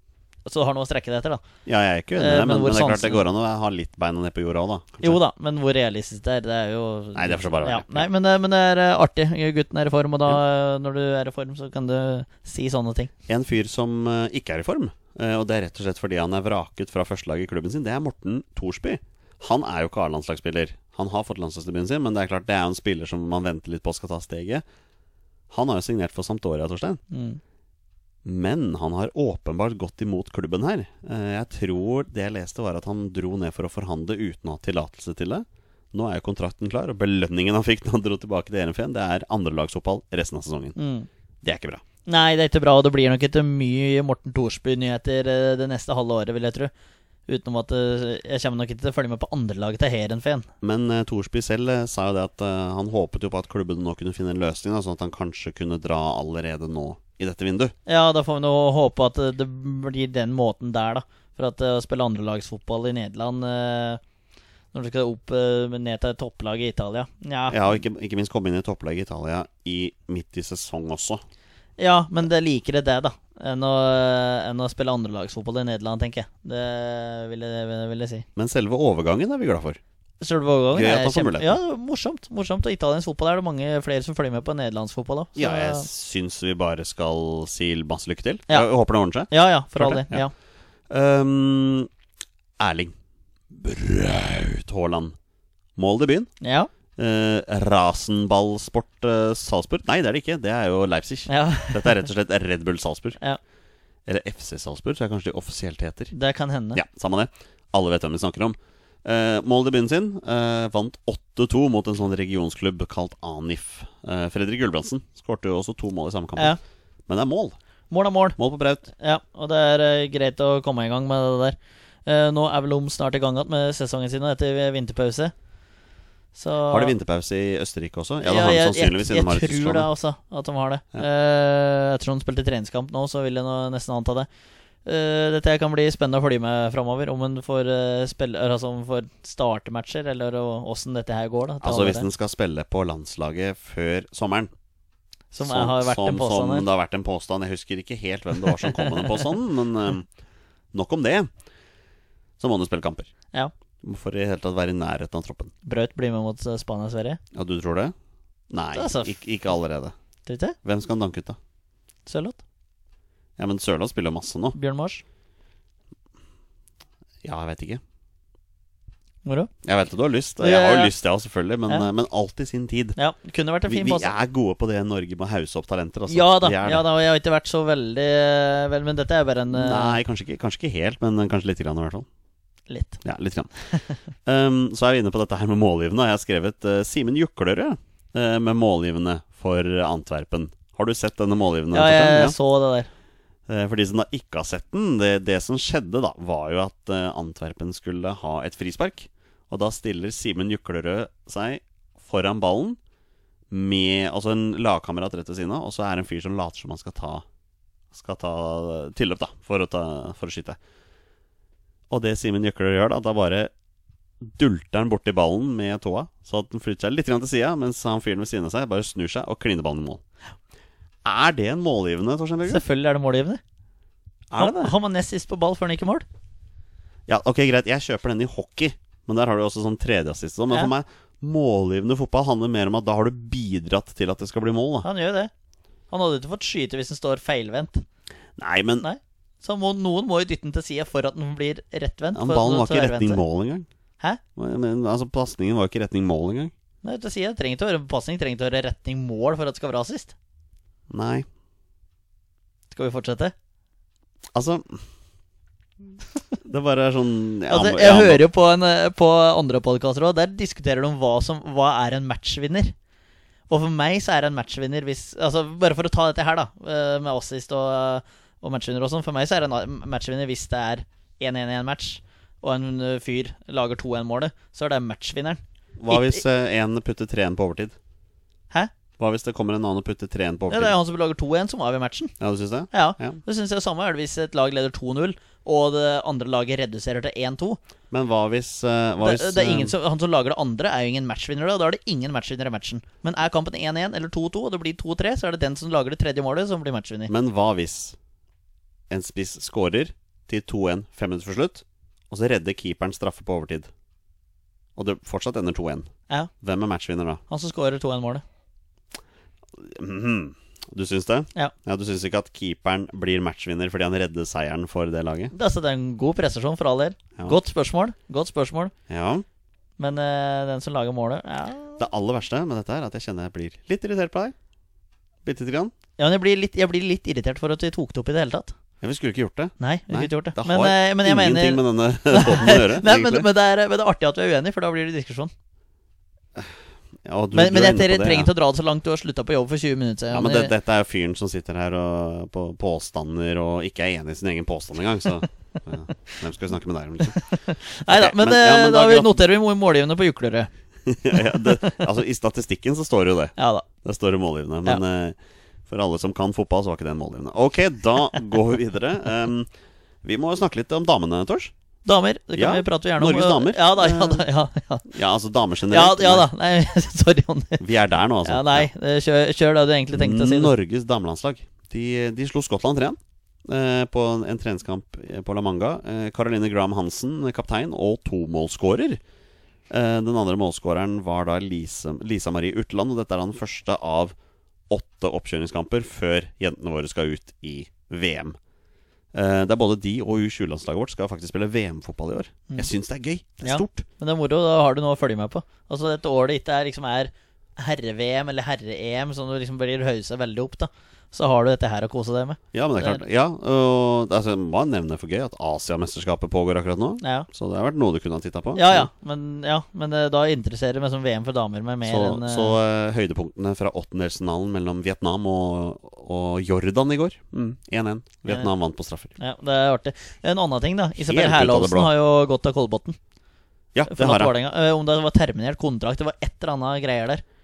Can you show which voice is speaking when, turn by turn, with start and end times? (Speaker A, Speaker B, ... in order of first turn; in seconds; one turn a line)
Speaker A: 0.5-1.4
Speaker B: 1.7-5.2
Speaker A: 2.2-3.2
Speaker A: 5.0-13.1
Speaker B: 7.2-8.1
Speaker B: 13.3-24.6
Speaker B: 25.5-27.0
Speaker A: 27.1-27.4
Speaker B: 28.2-40.8
Speaker A: 40.8-41.1
Speaker B: 41.4-41.8
Speaker A: 42.1-46.7
Speaker A: 47.3-50.5
Speaker B: 50.6-57.7
Speaker A: 57.9-64.0
Speaker A: 64.7-67.8
Speaker B: 67.5-71.2
Speaker A: 71.8-78.3
Speaker B: 78.4-79.8
Speaker A: 80.2-85.9
Speaker B: 80.7-81.6
Speaker B: 85.4-90.2
Speaker A: 89.3-90.3
Speaker B: 90.9-91.9
Speaker B: 92.6-92.9
Speaker B: 93.5-95.2
Speaker B: 95.8-96.3
Speaker A: 96.4-96.7
Speaker B: 97.0-103.2
Speaker A: 101.3-102.0
Speaker B: 104.1-106.1
Speaker A: 106.1-106.8
Speaker B: 106.7-116.6
Speaker B: 117.1-117.6
Speaker A: 117.9-118.4
Speaker B: 118.4-118.9
Speaker A: 119.0-125.3
Speaker A: 126.3-127.0
Speaker B: 126.7-129.9
Speaker A: 128.2-134.3
Speaker A: 134.8-142.1
Speaker B: 141.6-144.5
Speaker A: 145.3-146.7
Speaker B: 145.4-150.1
Speaker A: 148.6-149.3
Speaker B: 150.7-151.3
Speaker B: 152.4-153.1
Speaker B: 153.8-155.5
Speaker A: 155.7-157.2
Speaker B: 157.3-157.9
Speaker B: 158.5-159.9
Speaker A: 158.7-159.2
Speaker A: 160.3-160.6
Speaker B: 160.6-161.4
Speaker A: 162.1-162.4
Speaker B: 163.4-164.6
Speaker A: 164.6-165.0
Speaker B: 167.2-167.8
Speaker A: 169.2-169.5
Speaker B: 169.6-173.0
Speaker A: 170.4-170.9
Speaker A: 173.0-174.1
Speaker B: 173.7-176.8
Speaker A: 176.1-180.0
Speaker B: 179.5-182.1
Speaker A: 182.7-183.0
Speaker B: 183.0-183.5
Speaker B: 184.2-192.4
Speaker A: 191.7-192.9
Speaker B: 193.5-202.8
Speaker B: 203.5-207.2
Speaker B: 207.9-210.6
Speaker B: 211.9-213.5
Speaker B: 214.2-220.0
Speaker B: 221.1-222.6
Speaker A: 222.5-223.4
Speaker B: 224.3-224.7
Speaker A: 224.4-226.1
Speaker B: 227.1-234.9
Speaker A: 234.8-235.3
Speaker A: 235.9-237.8
Speaker B: 238.4-238.9
Speaker A: 238.8-243.2
Speaker B: 242.1-243.7
Speaker B: 244.4-246.5
Speaker A: 246.8-250.1
Speaker B: 250.9-251.3
Speaker A: 252.7-253.3
Speaker B: 254.3-254.8
Speaker B: 256.4-258.2
Speaker A: 257.5-262.7
Speaker A: 263.5-276.2
Speaker B: 275.8-277.8
Speaker B: 279.0-280.8
Speaker A: 280.5-282.1
Speaker B: 282.2-283.2
Speaker A: 282.7-287.6
Speaker B: 287.9-289.8
Speaker A: 289.0-297.1
Speaker B: 297.1-298.0
Speaker B: 298.9-303.7
Speaker B: 304.8-305.9
Speaker B: 306.4-307.2
Speaker A: 307.3-308.2
Speaker B: 309.6-315.3
Speaker A: 315.3-318.7
Speaker B: 318.9-319.2
Speaker A: 319.8-321.8
Speaker B: 321.8-324.4
Speaker B: 325.2-325.7
Speaker A: 326.0-328.5
Speaker B: 328.8-333.3
Speaker A: 329.6-335.3
Speaker B: 336.4-338.3
Speaker A: 337.3-340.5
Speaker B: 340.1-347.2
Speaker A: 347.1-350.5
Speaker B: 347.9-349.2
Speaker B: 350.9-359.5
Speaker A: 351.1-351.8
Speaker A: 353.4-353.7
Speaker B: 360.0-361.5
Speaker A: 361.9-364.9
Speaker B: 362.4-364.3
Speaker B: 364.9-366.3
Speaker A: 365.7-367.6
Speaker B: 367.6-368.7
Speaker A: 368.2-370.5
Speaker B: 369.9-379.0
Speaker B: 379.7-384.1
Speaker B: 384.7-388.4
Speaker B: 389.1-393.9
Speaker A: 393.4-403.0
Speaker B: 402.5-408.9
Speaker A: 407.0-407.3
Speaker A: 408.6-412.6
Speaker B: 411.9-419.1
Speaker A: 419.2-423.0
Speaker B: 421.0-421.9
Speaker B: 423.7-424.3
Speaker A: 423.9-427.2